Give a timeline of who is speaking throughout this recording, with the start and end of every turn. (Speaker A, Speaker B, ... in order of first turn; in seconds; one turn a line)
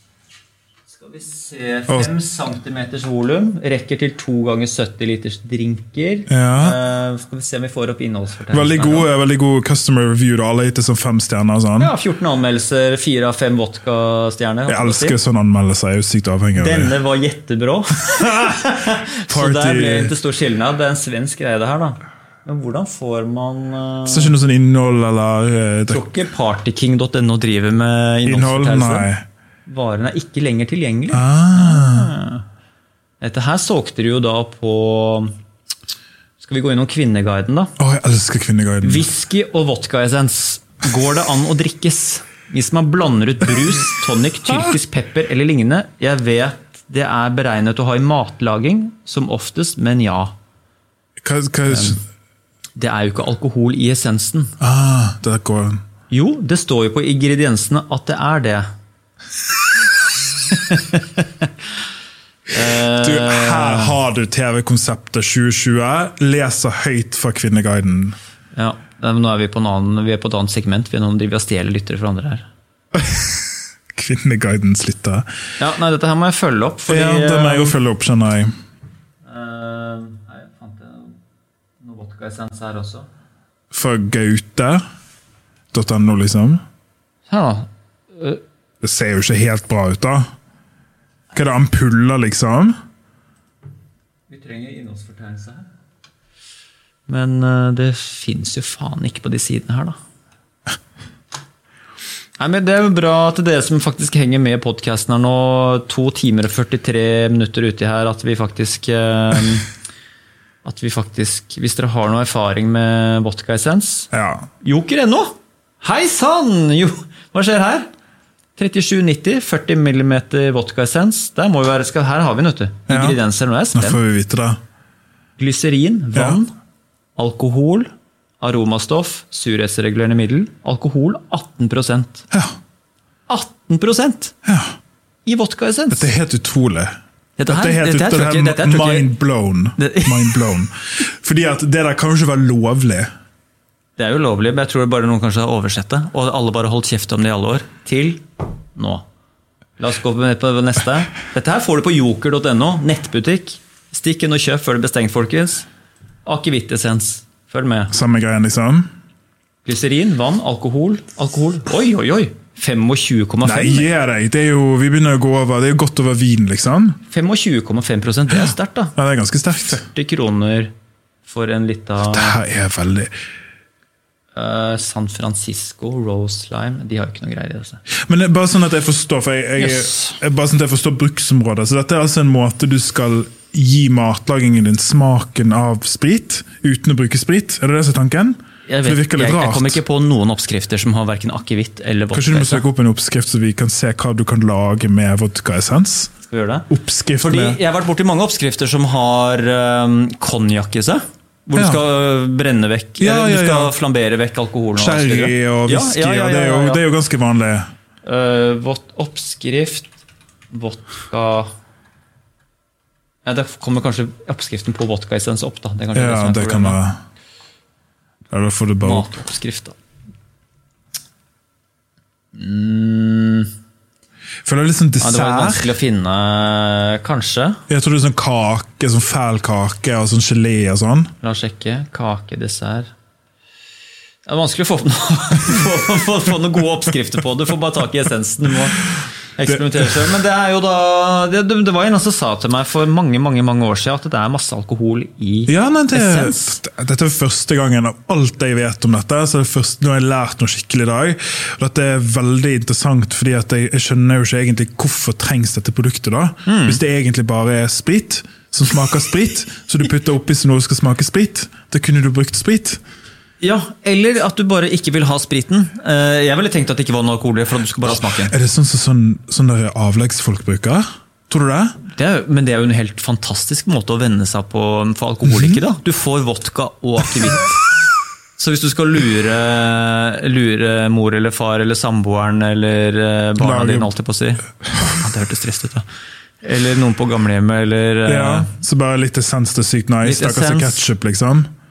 Speaker A: 0.9-9.1
Speaker B: 6.3-6.8
Speaker B: 8.5-11.9
Speaker A: 11.8-15.2
Speaker B: 14.7-16.9
Speaker A: 16.6-24.3
Speaker B: 19.3-20.1
Speaker B: 24.1-26.1
Speaker A: 25.9-29.1
Speaker B: 28.2-29.2
Speaker A: 29.6-32.4
Speaker B: 31.1-32.1
Speaker A: 33.2-35.3
Speaker A: 36.4-37.7
Speaker B: 37.8-39.1
Speaker A: 38.8-50.3
Speaker B: 51.2-52.0
Speaker A: 51.7-52.0
Speaker A: 52.8-54.5
Speaker B: 54.6-55.8
Speaker A: 56.1-58.6
Speaker A: 60.5-61.5
Speaker A: 62.5-64.0
Speaker B: 62.8-68.2
Speaker A: 68.5-72.5
Speaker B: 72.9-73.4
Speaker B: 73.9-75.2
Speaker A: 75.6-77.8
Speaker B: 76.9-78.5
Speaker A: 79.2-81.2
Speaker A: 81.8-83.1
Speaker B: 83.7-84.8
Speaker B: 85.7-86.6
Speaker A: 87.3-88.4
Speaker B: 88.8-90.2
Speaker B: 91.3-92.7
Speaker A: 94.3-95.7
Speaker A: 97.1-99.9
Speaker A: 102.4-109.7
Speaker A: 110.6-114.1
Speaker B: 114.1-114.5
Speaker A: 114.6-117.9
Speaker A: 118.6-124.0
Speaker B: 122.9-123.2
Speaker B: 123.7-124.6
Speaker A: 125.4-126.5
Speaker B: 126.1-126.4
Speaker A: 127.2-127.9
Speaker A: 128.4-132.2
Speaker A: 133.3-134.3
Speaker B: 134.4-134.8
Speaker A: 135.2-136.1
Speaker B: 135.9-136.9
Speaker A: 137.4-139.1
Speaker B: 137.5-143.1
Speaker A: 139.8-140.4
Speaker A: 144.0-149.0
Speaker A: 149.8-155.7
Speaker A: 156.2-157.9
Speaker B: 157.9-158.9
Speaker A: 159.6-163.9
Speaker B: 163.4-167.0
Speaker A: 167.1-168.9
Speaker B: 168.3-169.8
Speaker A: 169.6-170.7
Speaker A: 171.2-172.3
Speaker B: 172.1-173.1
Speaker A: 174.3-177.8
Speaker B: 178.1-189.8
Speaker A: 179.6-180.2
Speaker A: 188.7-192.7
Speaker B: 192.1-196.1
Speaker A: 196.3-196.7
Speaker B: 196.7-197.6
Speaker A: 197.2-206.8
Speaker B: 201.5-201.8
Speaker B: 203.0-203.7
Speaker B: 204.8-207.7
Speaker A: 208.0-210.0
Speaker A: 210.5-211.5
Speaker A: 213.2-216.8
Speaker B: 215.9-217.0
Speaker B: 218.3-219.1
Speaker A: 218.8-219.8
Speaker A: 222.3-223.5
Speaker B: 224.4-225.7
Speaker A: 225.0-227.6
Speaker B: 227.7-231.1
Speaker A: 231.2-232.9
Speaker A: 234.2-246.6
Speaker B: 245.5-262.8
Speaker A: 256.4-256.8
Speaker A: 263.4-268.3
Speaker B: 267.8-271.8
Speaker A: 271.8-277.6
Speaker B: 275.2-275.6
Speaker A: 278.4-285.8
Speaker B: 283.4-283.9
Speaker A: 286.4-288.5
Speaker B: 288.1-291.5
Speaker A: 290.0-290.8